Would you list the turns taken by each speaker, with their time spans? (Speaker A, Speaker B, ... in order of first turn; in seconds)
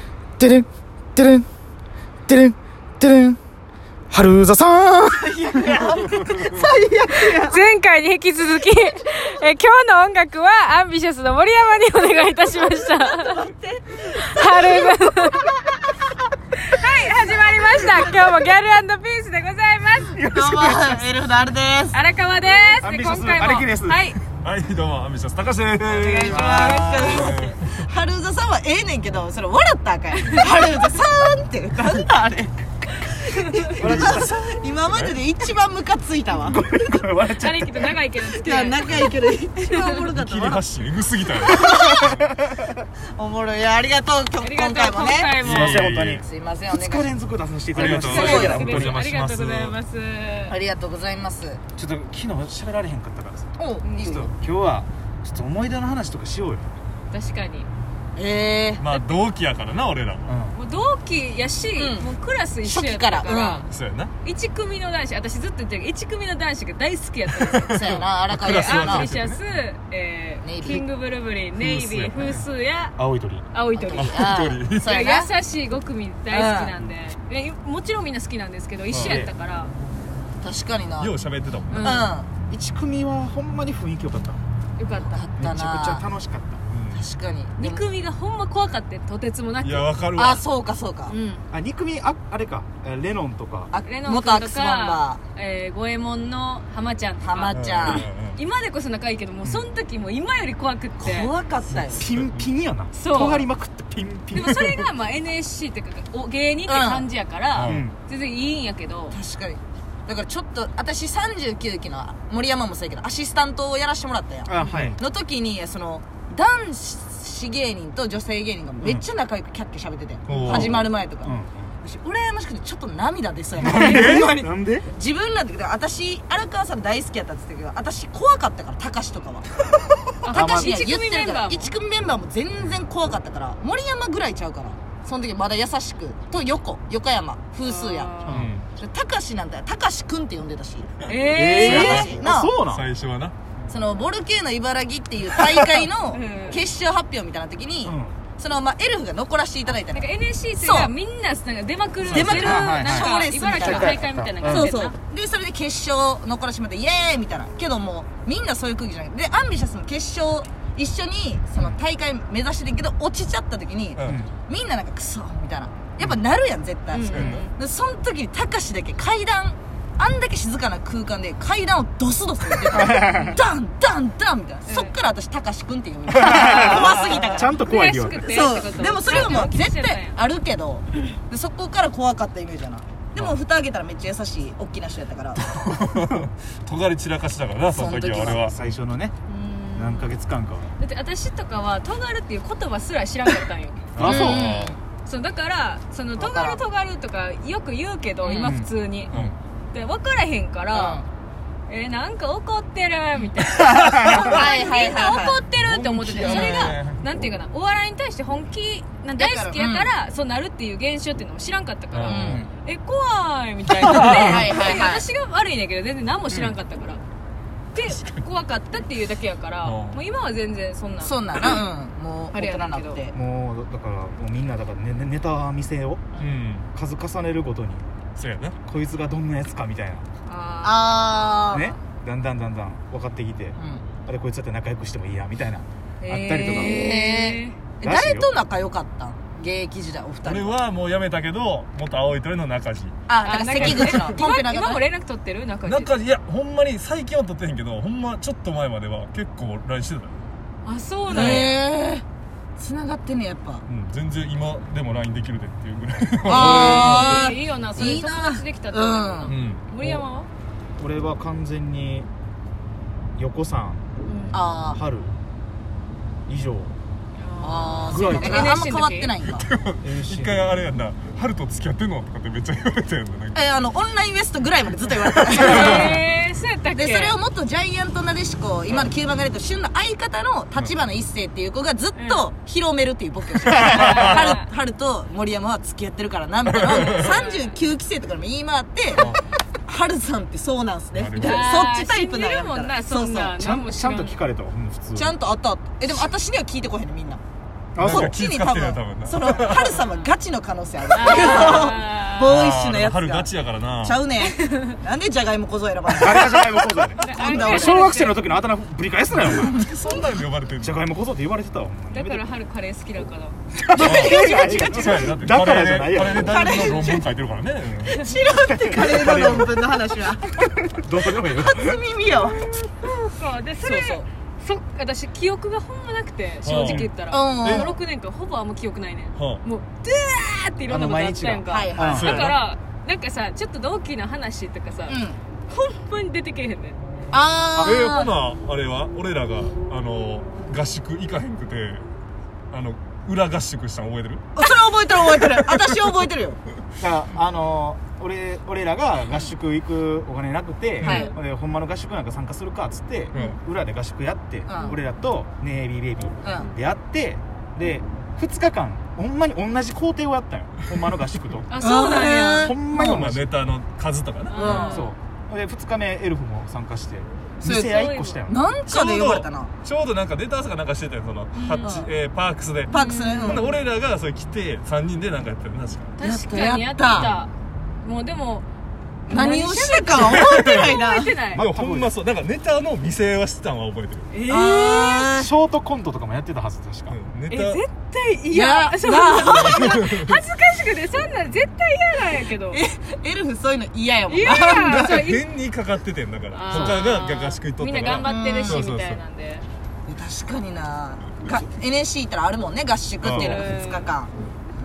Speaker A: 0.4-1.5, 2.3-3.4, 4.1-5.8, 20.0-21.0, 22.8-24.1, 25.8-27.2, 33.7-34.4, 36.4-38.0, 41.7-42.8, 45.4-49.0, 51.8-56.8, 60.3-60.6, 73.0-73.5, 78.9-79.3, 82.4-84.4, 85.4-86.6, 91.5-93.7, 101.8-104.7, 107.7-107.9, 114.5-115.0, 120.3-121.8, 123.6-124.9, 130.3-130.8, 138.3-138.5, 141.3-142.9, 147.8-148.2, 152.1-154.7, 164.0-164.3, 167.2-167.4, 172.7-173.4, 176.1-178.3, 188.2-189.2, 189.8-190.7, 193.9-194.6, 198.4-199.3, 203.7-204.1, 223.1-227.9, 228.7-230.1, 231.5-236.8, 237.8-238.3, 260.8-262.1, 263.2-263.9, 264.7-265.1, 266.3-266.7, 267.9-268.6, 269.8-270.6, 293.4-295.1, 297.8-298.2, 305.9-309.7, 310.6-312.2, 313.6-316.5, 318.5-319.6, 320.4-321.8, 330.7-332.3, 346.8-361.5, 362.2-363.3, 364.4-368.4, 381.3-381.9, 385.1-387.0, 396.5-396.8
Speaker B: 5.2-7.6, 13.0-15.7, 20.3-22.0, 25.9-37.1, 38.2-40.6, 41.4-42.1, 43.1-45.4, 46.1-47.1, 47.8-48.7, 50.5-51.6, 53.6-54.3, 58.1-58.9, 61.8-62.1, 62.6-63.7, 67.7-69.1, 70.4-70.8, 73.8-75.3, 76.3-76.7, 80.4-81.1, 81.7-82.3, 84.9-86.0, 86.9-87.8, 90.2-91.2, 93.7-95.2, 97.2-98.1, 101.0-102.1, 106.7-107.1, 109.1-129.7, 130.3-140.9, 141.6-142.5, 143.7-150.9, 152.1-177.6, 178.1-185.4, 187.7-188.4, 194.0-194.8, 196.2-196.6, 200.7-201.1, 204.1-205.4, 206.2-206.8, 209.2-209.9, 212.0-212.5, 214.0-215.0, 221.0-223.2, 230.6-231.7, 233.6-233.9, 236.4-240.6, 243.1-244.8, 251.1-252.1, 252.6-253.6, 256.2-259.4, 264.3-264.8, 267.4-269.5, 273.3-276.0, 276.8-293.4, 294.9-297.2, 297.8-308.0, 313.7-315.1, 316.2-317.1, 317.9-320.3, 321.2-322.5, 323.7-324.0, 327.1-327.8, 331.5-332.2, 334.9-335.2, 337.1-338.2, 344.4-346.4, 350.8-351.1, 354.5-354.8, 356.2-356.5, 361.6-363.0, 364.4-364.9, 367.4-369.5, 371.6-371.9, 372.7-373.5, 376.0-377.1, 379.1-381.2, 384.3-385.3, 388.3-389.8, 392.5-395.1, 398.0-398.6, 399.9-404.1
Speaker C: 7.1-15.5, 16.6-20.2, 21.9-24.2, 26.3-27.0, 37.3-39.1, 39.6-39.9, 44.4-45.8, 48.0-50.6, 53.8-54.2, 57.1-57.7, 60.5-63.7, 64.2-67.8, 68.5-73.0, 73.5-74.2, 74.8-79.7, 81.7-82.1, 84.8-85.2, 87.6-89.9, 91.1-91.4, 93.8-101.3, 102.9-103.5, 104.3-109.2, 130.2-131.7, 137.7-138.4, 141.1-142.1, 146.1-146.6, 149.9-155.0, 166.9-167.5, 173.1-173.4, 174.7-174.9, 177.5-180.2, 189.3-190.1, 190.8-193.9, 195.1-199.1, 199.7-201.1, 201.7-217.0, 217.7-221.6, 222.3-223.0, 230.2-231.7, 236.1-237.6, 243.2-246.0, 250.7-251.6, 256.3-260.3, 264.0-264.4, 267.2-269.1, 275.3-277.2, 282.0-282.2, 283.6-284.5, 286.6-287.6, 291.2-294.2, 300.9-302.3, 304.3-304.6, 307.0-308.3, 311.9-313.4, 322.8-336.8, 350.9-351.1, 361.5-362.6, 364.3-364.9, 367.6-368.2, 371.4-371.8, 372.7-373.6, 376.0-378.5, 379.1-381.4, 384.1-385.1, 387.3-392.6, 394.1-395.2, 396.3-399.5, 403.1-403.9
Speaker D: 24.4-27.8, 33.8-35.2, 38.9-39.1, 40.1-42.2, 45.4-46.2, 47.7-49.8, 58.8-60.3, 63.7-64.1, 67.4-69.4, 71.6-72.5, 74.0-75.0, 78.9-79.2, 81.0-82.0, 86.7-87.0, 89.6-90.4, 97.5-98.4, 101.7-102.5, 104.5-104.8, 107.5-107.8, 120.3-120.8, 123.7-124.2, 138.3-138.7, 141.7-142.1, 142.7-143.3, 152.1-152.6, 179.1-179.4, 185.5-188.8, 194.0-194.8, 205.6-207.0, 211.9-212.5, 217.8-218.2, 219.6-220.0, 226.2-226.7, 228.2-228.6, 240.2-243.0, 243.6-244.1, 245.7-250.2, 251.1-251.5, 253.7-257.3, 259.3-259.6, 269.2-273.4, 283.9-284.2, 286.6-287.0, 288.9-289.2, 290.9-291.6, 297.8-299.8, 302.2-304.1, 309.1-310.8, 313.8-317.9, 326.4-326.9, 327.4-327.7, 329.2-329.4, 331.9-332.4, 337.6-341.9, 342.5-344.3, 362.8-364.6, 368.7-376.0, 380.0-380.8, 381.3-384.1, 386.9-387.6, 389.2-390.2, 394.6-399.0, 403.0-403.4